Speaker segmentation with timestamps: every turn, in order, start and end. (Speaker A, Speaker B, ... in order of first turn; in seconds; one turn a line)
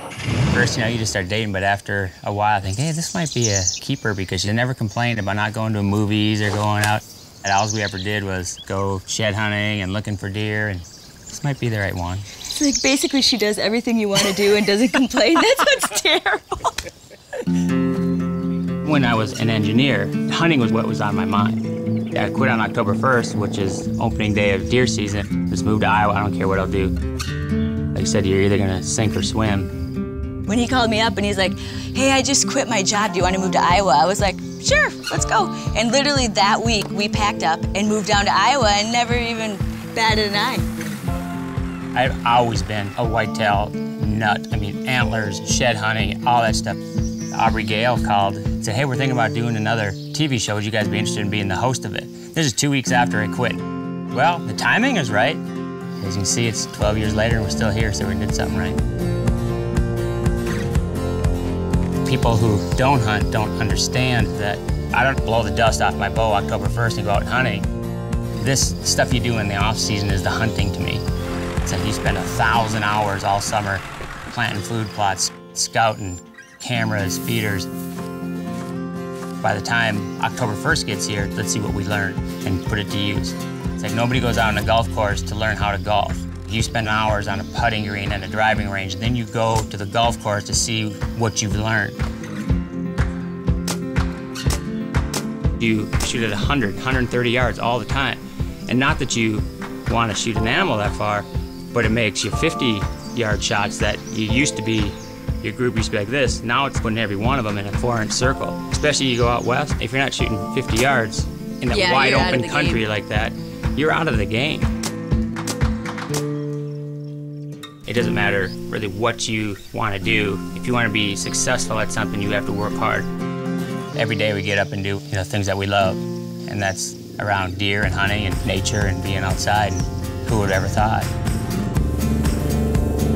Speaker A: 0.5-12.2
Speaker B: 12.5-16.8
Speaker A: 18.8-26.9
Speaker A: 27.9-29.7
Speaker B: 30.4-40.7
Speaker A: 41.9-46.8
Speaker A: 47.3-55.4
Speaker A: 56.0-58.8
Speaker A: 62.0-67.7
Speaker A: 68.4-71.0
Speaker A: 71.6-77.7
Speaker A: 79.4-92.0
Speaker A: 95.6-114.7
Speaker B: 111.7-112.8
Speaker A: 117.8-123.1
Speaker A: 124.0-131.1